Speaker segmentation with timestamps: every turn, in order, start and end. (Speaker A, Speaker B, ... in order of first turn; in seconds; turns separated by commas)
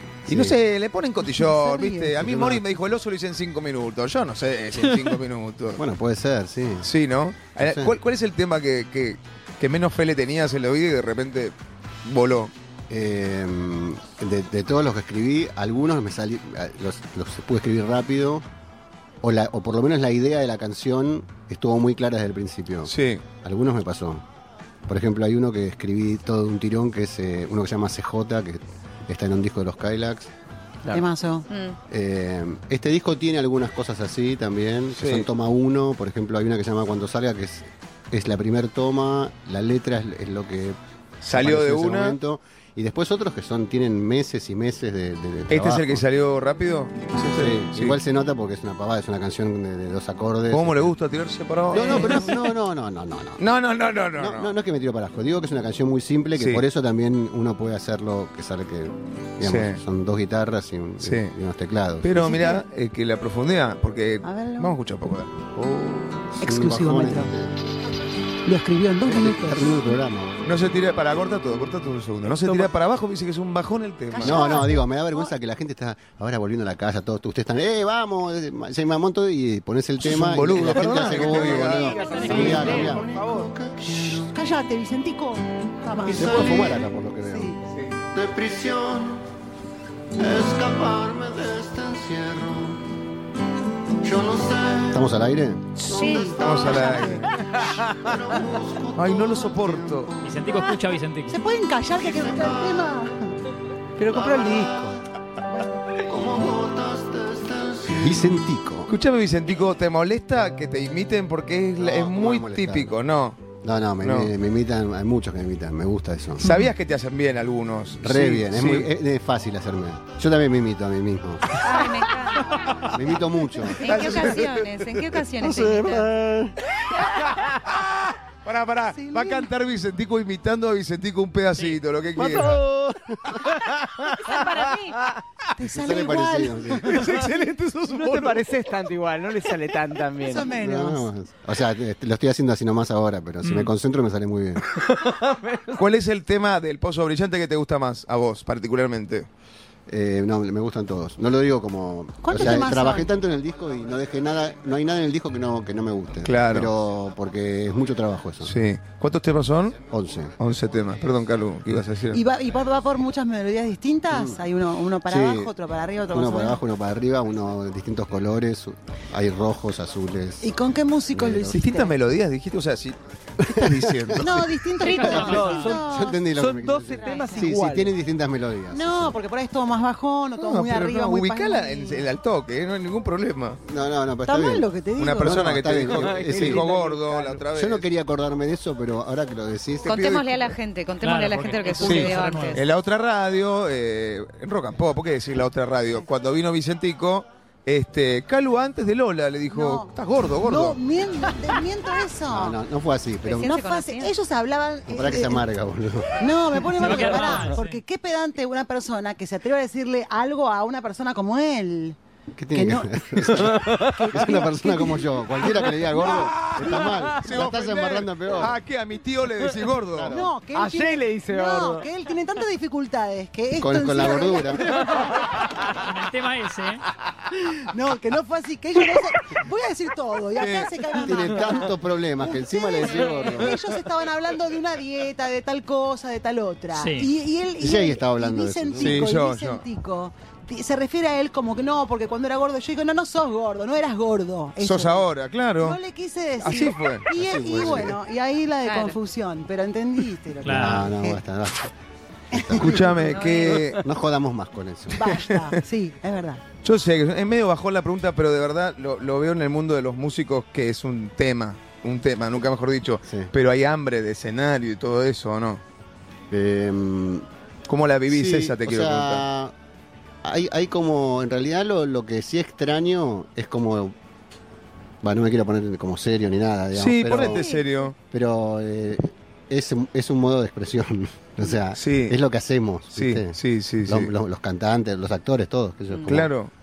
Speaker A: 0.3-5.8, Speaker B: 0.3-0.6, Speaker C: 1.3-2.2, Speaker B: 2.2-2.6, Speaker B: 5.8-6.9, Speaker A: 6.8-11.5, Speaker B: 7.6-8.0, Speaker A: 12.1-12.5, Speaker B: 12.9-18.5, Speaker B: 19.2-24.2, Speaker A: 22.9-23.2, Speaker B: 24.9-30.3, Speaker C: 30.9-31.5, Speaker D: 31.5-31.8, Speaker B: 31.9-40.8, Speaker A: 35.0-35.3, Speaker A: 41.2-42.2, Speaker B: 41.3-46.0, Speaker A: 45.5-48.0, Speaker B: 47.3-51.0, Speaker A: 50.5-52.4, Speaker B: 51.7-53.4, Speaker C: 51.7-52.5, Speaker A: 53.4-54.5, Speaker B: 54.1-62.2, Speaker A: 56.4-56.6, Speaker A: 59.4-59.8, Speaker A: 61.0-61.3, Speaker A: 62.0-65.3, Speaker C: 62.1-62.6, Speaker C: 64.2-64.8, Speaker B: 65.5-67.7, Speaker C: 66.4-67.3, Speaker C: 68.5-70.0, Speaker B: 69.0-70.5, Speaker A: 70.4-74.6, Speaker C: 74.1-75.3, Speaker B: 74.2-84.3, Speaker A: 80.0-82.7, Speaker E: 80.6-83.5, Speaker F: 82.0-83.0, Speaker C: 82.1-82.9, Speaker C: 83.8-87.6, Speaker B: 86.1-87.6, Speaker B: 88.1-89.3, Speaker B: 90.2-92.9, Speaker B: 94.0-100.6, Speaker C: 95.8-96.4, Speaker D: 95.9-97.2, Speaker A: 96.4-97.3, Speaker A: 99.0-100.1, Speaker F: 100.2-101.4, Speaker C: 101.3-103.3, Speaker B: 102.0-102.9, Speaker E: 104.0-104.8, Speaker C: 104.1-105.0, Speaker B: 104.1-105.0, Speaker B: 106.0-108.9, Speaker A: 108.9-113.4, Speaker B: 111.8-113.0, Speaker B: 113.6-116.5, Speaker A: 114.0-114.3, Speaker A: 116.4-118.9, Speaker F: 116.4-116.7, Speaker B: 118.0-121.6, Speaker D: 121.6-122.8, Speaker B: 122.9-124.4, Speaker D: 123.8-126.1, Speaker A: 123.8-125.0, Speaker B: 125.4-126.6, Speaker A: 127.2-132.6, Speaker C: 128.9-129.5, Speaker E: 132.2-132.9, Speaker A: 133.4-134.4, Speaker D: 134.2-135.0, Speaker C: 135.6-137.3, Speaker B: 135.6-136.9, Speaker A: 136.9-138.4, Speaker E: 136.9-140.5, Speaker C: 140.2-141.1, Speaker B: 140.6-144.7, Speaker F: 143.4-143.7, Speaker E: 144.8-145.8, Speaker A: 145.8-149.3, Speaker B: 149.9-158.5, Speaker C: 152.2-153.1, Speaker A: 156.2-156.7, Speaker A: 158.4-159.8, Speaker B: 159.9-160.3, Speaker A: 160.4-162.2, Speaker C: 162.1-166.6, Speaker B: 164.1-164.4, Speaker B: 165.1-165.5, Speaker B: 166.1-170.5, Speaker C: 170.4-171.9, Speaker B: 171.1-171.6, Speaker A: 171.5-174.5, Speaker B: 173.4-174.4, Speaker C: 174.2-176.2, Speaker D: 174.8-175.6, Speaker B: 175.0-179.2, Speaker E: 175.0-175.8, Speaker E: 176.3-177.9, Speaker C: 177.0-177.5, Speaker C: 178.7-182.1, Speaker A: 180.4-183.6, Speaker B: 183.7-184.7, Speaker C: 184.3-185.5, Speaker A: 185.0-187.9, Speaker B: 185.2-186.6, Speaker E: 185.9-187.4, Speaker B: 187.5-190.5, Speaker D: 189.8-192.6, Speaker A: 189.9-190.3, Speaker F: 191.0-192.6, Speaker A: 191.8-200.8, Speaker C: 199.5-202.6, Speaker B: 202.3-203.5, Speaker C: 203.2-205.5, Speaker D: 203.3-204.1, Speaker B: 204.9-206.3, Speaker C: 206.2-212.0, Speaker F: 206.8-207.8, Speaker B: 212.3-218.6, Speaker C: 212.5-216.3, Speaker E: 213.5-213.8, Speaker A: 216.1-220.2, Speaker B: 219.9-220.3, Speaker C: 220.1-225.2, Speaker E: 220.5-221.9, Speaker B: 223.6-224.7, Speaker F: 225.7-226.8, Speaker C: 227.6-245.1, Speaker A: 230.4-230.8, Speaker B: 231.0-233.6, Speaker F: 236.7-237.1, Speaker B: 237.6-239.1, Speaker A: 238.8-239.6, Speaker A: 244.6-245.8, Speaker C: 245.6-251.2, Speaker A: 246.4-247.9, Speaker B: 247.1-248.0, Speaker D: 248.6-249.0, Speaker F: 250.4-250.9, Speaker B: 250.5-251.7, Speaker B: 252.3-253.1, Speaker C: 252.3-252.8, Speaker A: 252.6-253.8, Speaker D: 253.0-253.7, Speaker B: 253.7-255.2, Speaker C: 254.9-256.4, Speaker A: 256.6-265.6, Speaker B: 263.1-263.3, Speaker B: 266.3-267.3, Speaker A: 267.7-269.2, Speaker B: 268.1-269.5, Speaker B: 270.2-273.9, Speaker B: 275.0-277.5, Speaker A: 276.7-277.9, Speaker C: 277.2-277.7, Speaker B: 278.0-286.3, Speaker A: 281.8-282.2, Speaker A: 282.9-284.1, Speaker A: 286.1-286.5